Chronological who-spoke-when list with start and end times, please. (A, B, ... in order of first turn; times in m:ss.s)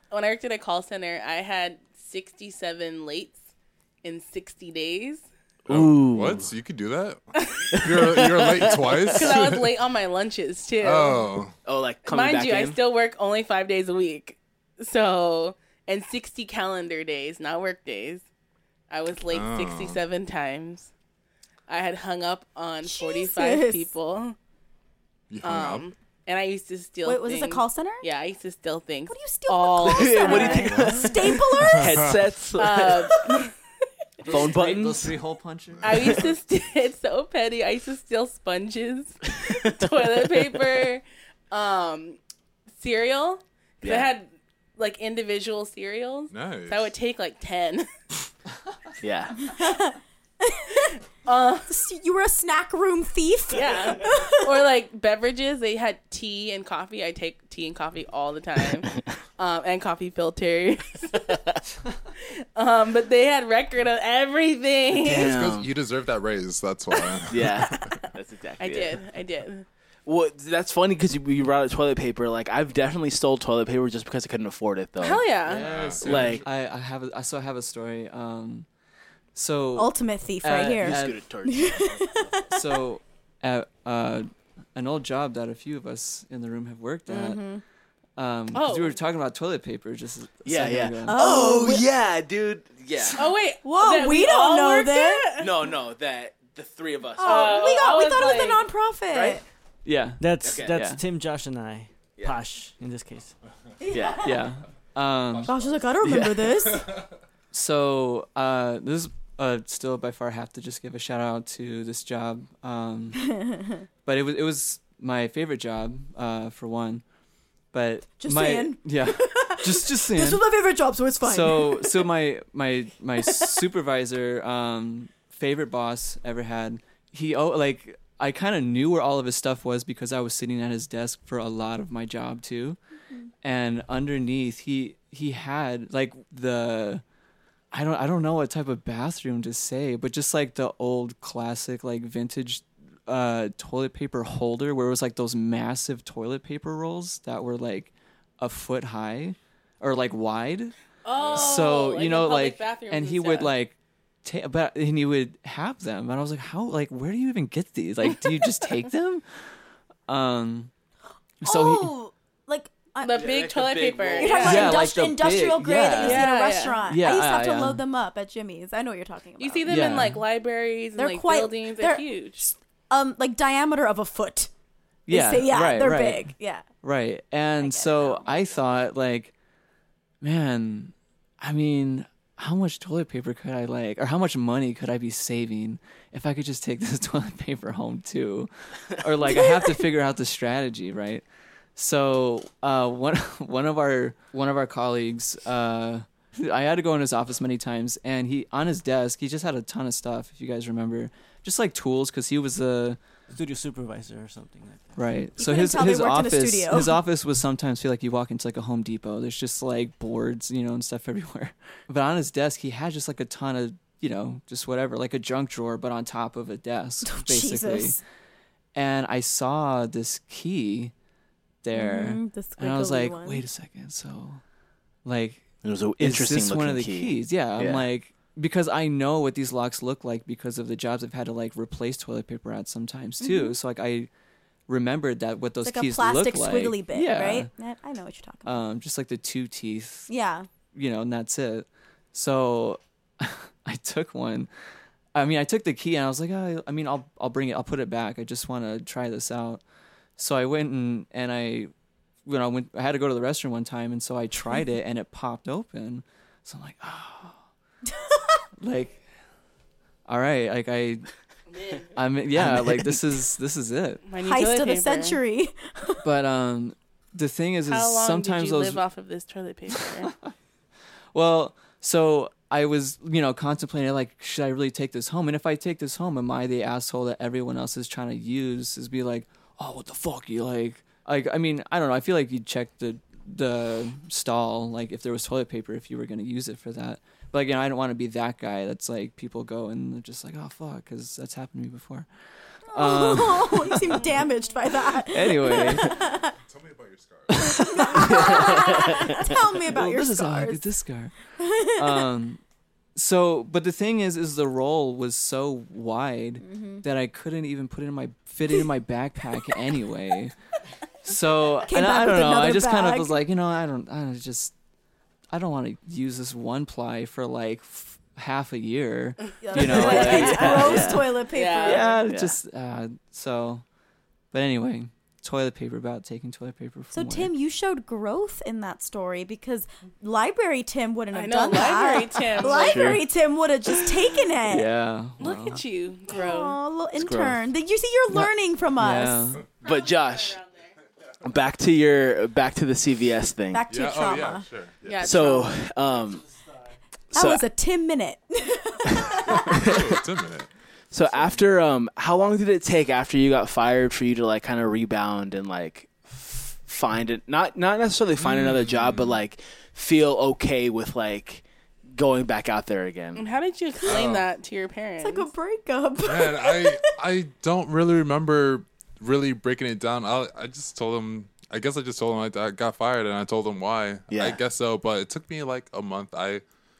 0:00.1-0:03.4 A
0:04.0-0:05.2 A
0:05.7-0:06.4 B
0:05.7-0:09.7 C
0:07.4-0:07.7 A
0:07.7-0:09.3 B
0:09.1-0:11.3 A
0:10.8-0:11.5 C
0:11.6-0:12.8 B
0:12.1-0:18.2 A
0:18.9-0:20.9 A
0:19.3-0:20.0 C
0:21.7-0:24.4 A
0:22.8-0:23.9 D
0:25.3-0:25.8 C
0:25.4-0:30.7 A
0:27.0-0:28.1 D
0:29.1-0:32.2 D
0:29.8-0:33.2 B
0:30.6-0:30.9 E
0:31.7-0:32.1 C
0:32.6-0:33.5 A
0:34.2-0:35.1 B
0:34.2-0:36.2 E
0:35.8-0:42.2 A
0:39.4-0:39.8 B
0:42.8-0:47.9 A
0:43.8-0:44.1 B
0:46.3-0:46.9 C
0:49.0-0:49.4 B
0:49.4-0:50.9 D
0:51.2-0:51.8 A
0:51.7-0:54.6 D
0:53.5-1:01.2 A
1:01.1-1:01.6 B
1:02.6-1:05.3 A
1:04.9-1:05.7 B
1:05.2-1:07.5 C
1:07.3-1:09.0 B
1:07.7-1:08.0 A
1:08.6-1:09.6 A
1:10.0-1:15.2 B
1:15.0-1:15.7 A
1:15.4-1:18.7 E
1:15.6-1:16.4 C
1:16.0-1:16.4 B
1:19.3-1:21.2 E
1:19.7-1:22.8 D
1:20.8-1:22.2 B
1:22.5-1:27.4 E
1:27.1-1:27.6 D
1:28.2-1:31.4 E
1:28.5-1:29.0 A
1:30.4-1:33.3 B
1:31.1-1:31.8 D
1:33.1-1:35.5 A
1:33.6-1:35.3 D
1:35.4-1:37.7 B
1:37.2-1:38.6 A
1:37.2-1:39.4 D
1:39.1-1:39.4 B
1:39.8-1:41.0 E
1:40.2-1:43.3 F
1:40.4-1:40.8 B
1:43.8-1:44.4 D
1:43.9-1:44.3 B
1:44.2-1:45.6 E
1:45.4-1:46.9 D
1:47.5-1:53.2 E
1:53.2-1:53.8 D
1:54.0-1:57.0 E
1:57.7-2:00.4 E
1:58.2-2:02.1 D
2:01.2-2:12.8 E
2:03.2-2:03.5 D
2:13.4-2:17.0 E
2:17.7-2:30.7 E
2:31.0-2:33.5 A
2:31.2-2:39.2 E
2:40.1-2:40.7 E
2:41.4-2:41.9 E
2:41.4-2:43.3 D
2:43.0-2:44.8 A
2:43.1-2:44.7 B
2:44.2-2:49.8 D
2:44.4-2:46.3 E
2:46.0-2:46.8 A
2:46.8-2:47.8 E
2:49.4-2:52.5 A
2:49.7-2:50.2 E
2:51.0-2:54.5 D
2:55.0-2:59.3 E
2:55.1-2:56.7 D
2:57.6-2:58.5 D
3:00.2-3:11.2 E
3:11.8-3:23.0 E
3:23.3-3:25.0 F
3:25.0-3:38.0 E
3:25.4-3:27.0 D
3:37.0-3:38.0 D
3:38.7-3:40.9 E
3:41.6-3:44.4 E
3:41.7-3:43.4 D
3:45.0-3:45.4 E
3:45.6-3:47.8 B
3:46.0-3:54.1 E
3:53.2-3:53.6 D
3:54.7-3:57.5 E
3:55.6-3:58.6 D
3:58.4-4:00.1 E
4:00.1-4:00.5 D
4:00.7-4:04.5 E
4:05.1-4:09.6 E
4:10.2-4:11.7 E
4:12.2-4:17.4 E
4:17.9-4:18.4 D
4:18.6-4:19.0 E
4:20.1-4:21.1 E
4:21.5-4:21.9 A
4:22.0-4:24.0 E
4:22.4-4:22.9 B
4:24.1-4:25.2 A
4:24.2-4:26.0 D
4:26.0-4:28.8 E
4:27.6-4:30.1 A
4:29.7-4:30.3 E
4:31.1-4:52.1 E
4:52.7-4:54.1 E
4:52.7-4:56.3 D
4:55.1-4:56.0 E
4:56.4-4:57.6 C
4:57.3-4:58.7 E
4:57.4-5:00.6 D
4:58.1-4:58.9 B
4:59.6-5:01.1 E
5:01.4-5:02.1 D
5:01.8-5:02.4 E
5:02.9-5:10.3 E
5:06.4-5:06.8 D
5:11.0-5:14.5 E
5:11.7-5:13.1 D
5:15.3-5:21.0 E
5:19.4-5:22.0 D
5:19.7-5:20.7 A
5:19.7-5:21.1 B
5:21.3-5:21.9 A
5:21.6-5:23.6 E
5:22.0-5:22.3 B
5:24.3-5:27.3 E
5:26.9-5:34.7 D
5:31.1-5:33.0 A
5:32.4-5:33.0 B
5:34.4-5:35.6 E
5:35.2-5:36.6 A
5:36.1-5:39.4 D
5:37.0-5:37.4 B
5:38.1-5:39.4 E
5:39.6-5:40.4 B
5:39.6-5:40.7 A
5:41.2-5:43.6 B
5:43.5-5:44.4 D
5:43.7-5:45.1 C
5:44.8-5:45.5 A
5:45.0-5:46.2 B
5:47.1-5:47.4 B
5:47.1-5:49.7 D
5:48.9-5:50.0 B
5:49.3-5:50.5 C
5:50.9-6:03.2 B
5:58.2-5:59.2 C
6:03.2-6:05.3 A
6:03.8-6:04.2 C
6:05.0-6:06.9 D
6:06.0-6:16.4 C
6:14.1-6:14.4 B